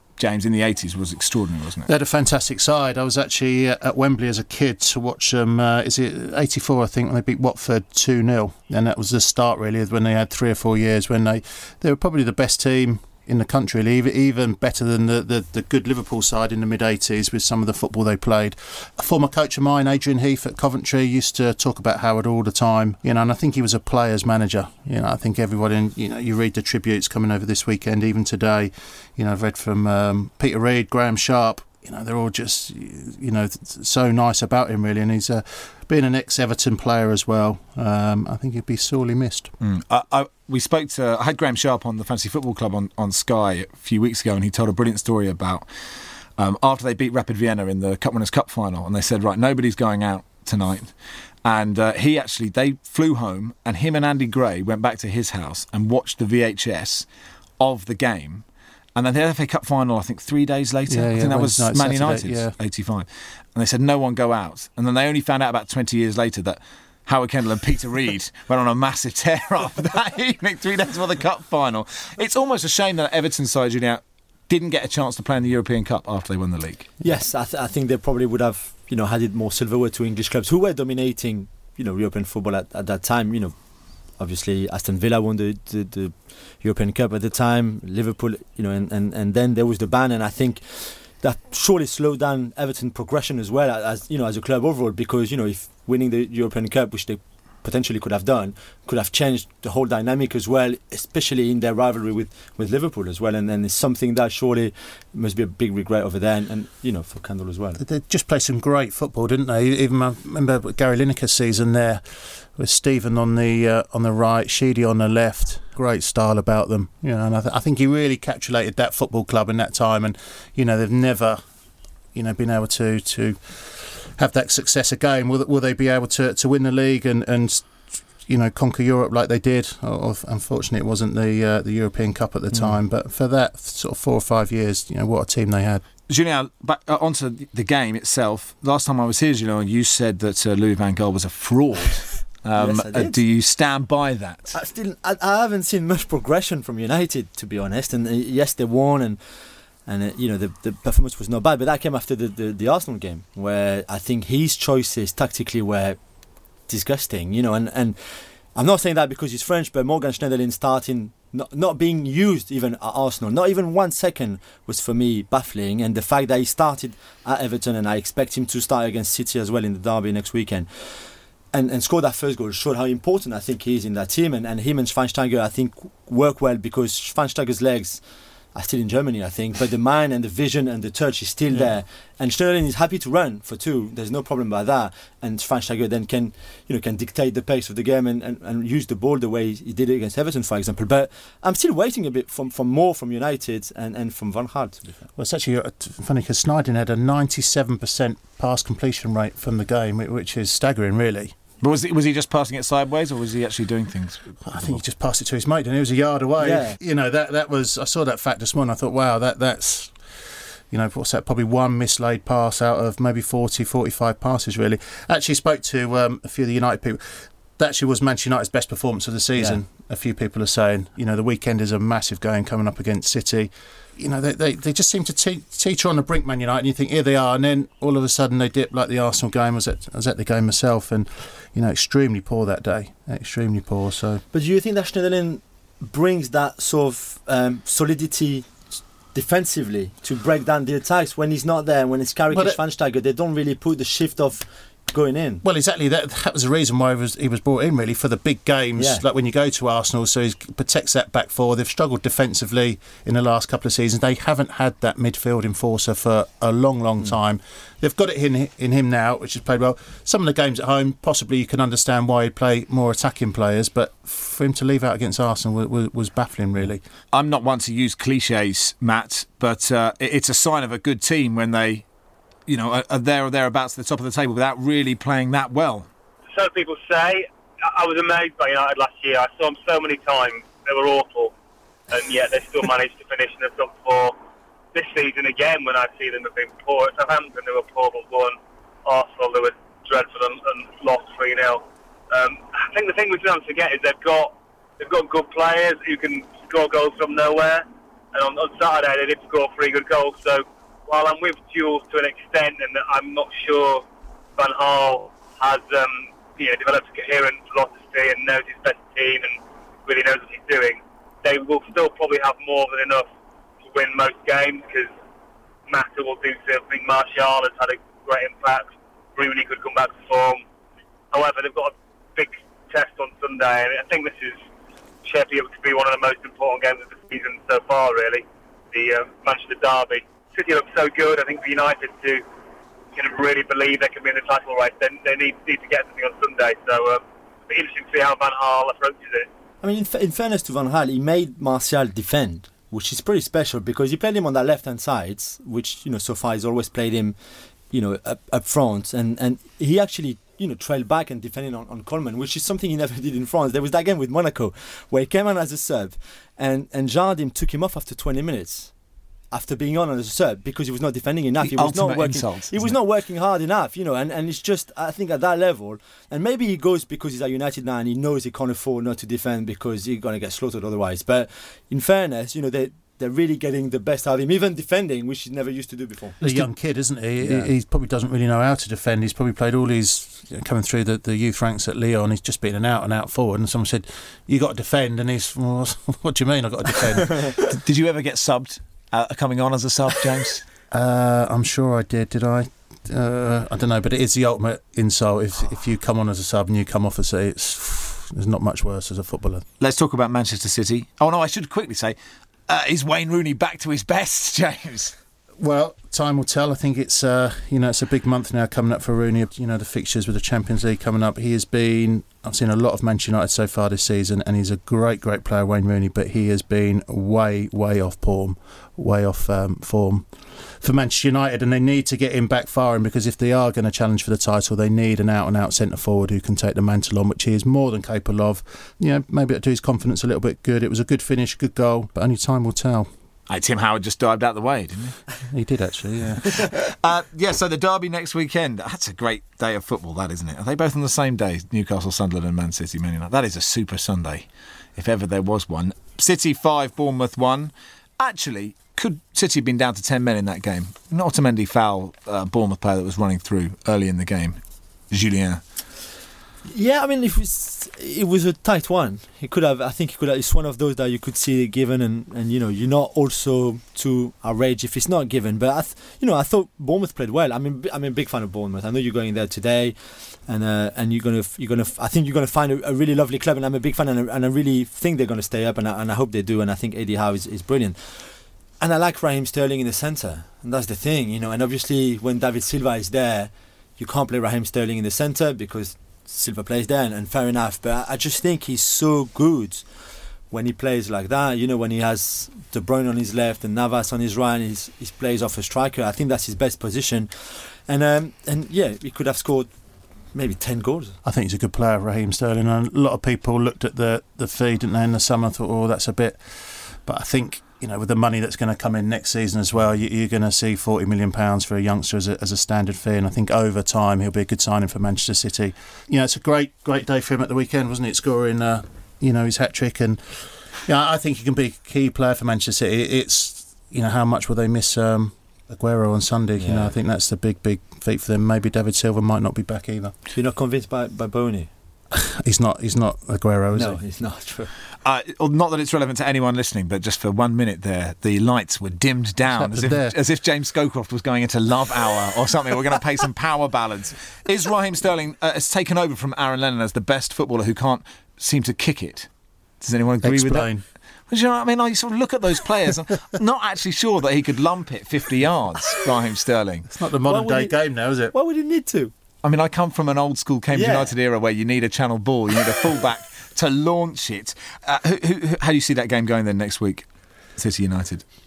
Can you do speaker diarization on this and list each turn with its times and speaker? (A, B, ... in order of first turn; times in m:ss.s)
0:00.2-0:01.9 A
0:01.8-0:39.5 B
0:39.6-0:45.6 A
0:46.4-0:50.9 A
0:51.4-0:57.1 A
0:57.6-0:58.4 A
0:59.0-1:16.9 A
1:00.9-1:02.5 B
1:17.0-1:23.6 C
1:24.2-1:47.8 C
1:47.8-2:01.4 B
2:02.1-2:15.8 B
2:16.1-2:24.6 A
2:22.5-2:23.2 C
2:24.5-2:36.0 C
2:36.7-3:15.0 C
3:15.1-3:21.3 B
3:21.6-3:24.8 A
3:24.4-3:54.2 B
3:26.4-3:26.8 C
3:54.3-4:05.4 C
4:02.3-4:02.6 B
4:05.4-4:26.8 B
4:08.8-4:09.0 C
4:27.1-4:31.8 A
4:32.5-4:35.9 A
4:36.3-4:41.3 D
4:41.9-4:44.1 D
4:44.7-5:03.8 D
5:04.4-5:13.1 D
5:13.6-5:14.9 D
5:15.7-5:20.4 D
5:21.1-5:24.4 D
5:25.0-5:32.2 D
5:32.9-5:39.3 D
5:39.6-5:47.2 C
5:47.7-5:58.7 C
5:59.3-6:16.5 C
6:01.4-6:02.8 A
6:16.2-6:27.4 B
6:17.2-6:17.5 C
6:27.5-6:30.4 A
6:30.7-6:39.4 B
6:39.6-6:42.0 A
6:42.5-6:44.9 A
6:45.4-7:12.9 B
7:13.3-7:15.0 A
7:15.3-7:16.5 B
7:16.5-7:34.4 A
7:34.9-7:35.4 A
7:36.5-8:09.7 C
8:10.3-8:19.5 C
8:20.1-8:21.0 C
8:21.0-8:50.0 B
8:46.4-8:46.7 C
8:50.1-8:51.5 C
8:51.9-8:53.8 B
8:53.5-8:54.5 C
8:54.8-9:09.1 A
8:59.2-8:59.9 B
9:09.6-9:10.5 A
9:10.0-9:10.6 B
9:11.1-9:16.6 A
9:16.7-9:18.1 B
9:17.1-9:17.6 C
9:18.1-9:18.9 C
9:19.2-9:28.0 A
9:20.5-9:20.9 C